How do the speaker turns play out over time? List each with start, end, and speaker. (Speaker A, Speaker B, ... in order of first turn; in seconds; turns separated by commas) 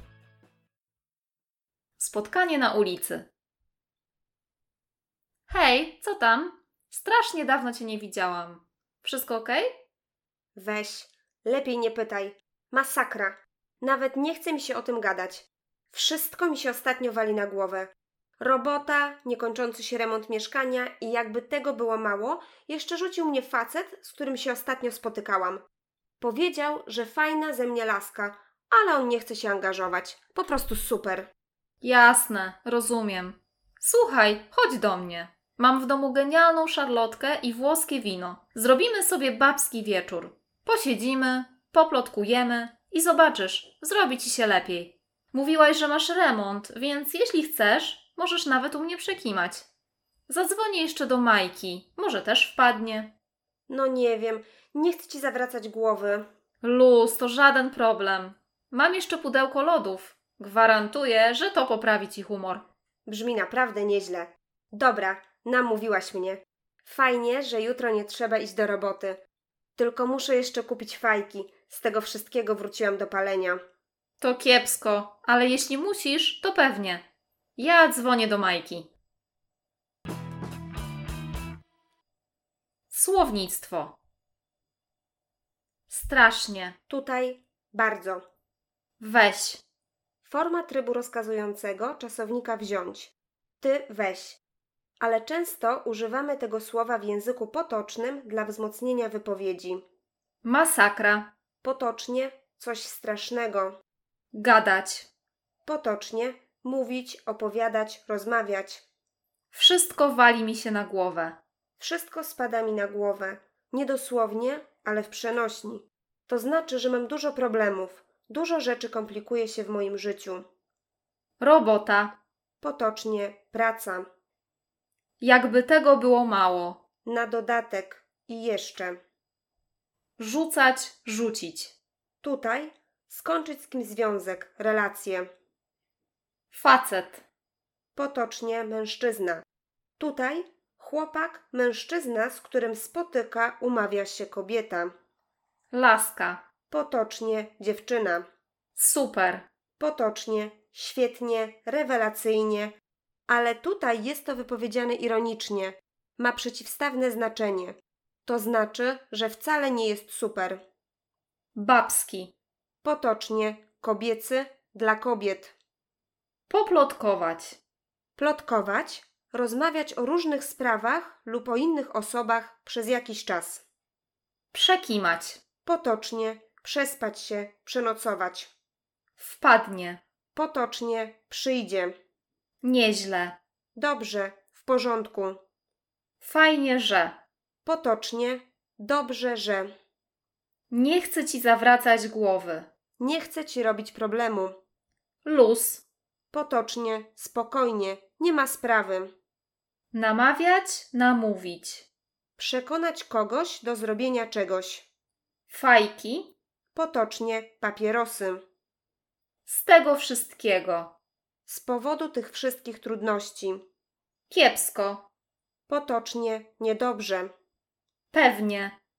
Speaker A: 2.0-3.3, Speaker A: 5.5-9.7, Speaker B: 10.6-25.6, Speaker B: 26.2-31.3, Speaker A: 31.8-49.6, Speaker A: 50.3-53.1, Speaker B: 53.7-56.2, Speaker A: 56.6-62.6, Speaker B: 63.0-69.2, Speaker B: 69.8-73.6, Speaker A: 74.2-77.0, Speaker A: 77.6-78.9, Speaker A: 82.9-84.0, Speaker A: 85.9-86.8, Speaker B: 86.9-88.2, Speaker A: 89.0-89.6, Speaker B: 90.2-94.4, Speaker B: 95.0-99.8, Speaker A: 100.4-101.3, Speaker B: 101.6-103.8, Speaker A: 104.3-105.1, Speaker B: 105.6-108.8, Speaker A: 109.5-111.4, Speaker B: 111.8-120.4, Speaker A: 121.4-122.2, Speaker B: 122.6-124.1, Speaker A: 125.2-126.8, Speaker B: 127.0-129.0, Speaker A: 130.2-131.7, Speaker B: 132.2-135.3, Speaker A: 136.5-137.2, Speaker B: 137.9-139.4, Speaker B: 140.0-144.9, Speaker A: 145.7-146.4, Speaker B: 146.7-148.2, Speaker A: 148.8-149.4, Speaker B: 149.8-152.7, Speaker B: 153.3-160.6, Speaker A: 161.5-162.3, Speaker B: 162.8-165.5, Speaker A: 166.5-167.6, Speaker B: 168.2-173.6, Speaker A: 174.5-175.4, Speaker B: 175.6-178.5, Speaker A: 179.2-180.0, Speaker B: 180.3-181.9, Speaker A: 182.6-183.4, Speaker B: 183.8-185.4, Speaker A: 186.2-187.2, Speaker B: 187.6-189.7, Speaker A: 190.7-192.7, Speaker B: 193.0-194.6, Speaker A: 195.2-195.8, Speaker B: 196.3-199.1, Speaker A: 199.9-201.9, Speaker B: 202.4-204.9, Speaker A: 205.5-206.3, Speaker B: 206.7-208.4, Speaker A: 209.4-210.9, Speaker B: 211.4-213.6, Speaker A: 214.3-215.1, Speaker B: 215.7-217.3, Speaker A: 218.1-218.8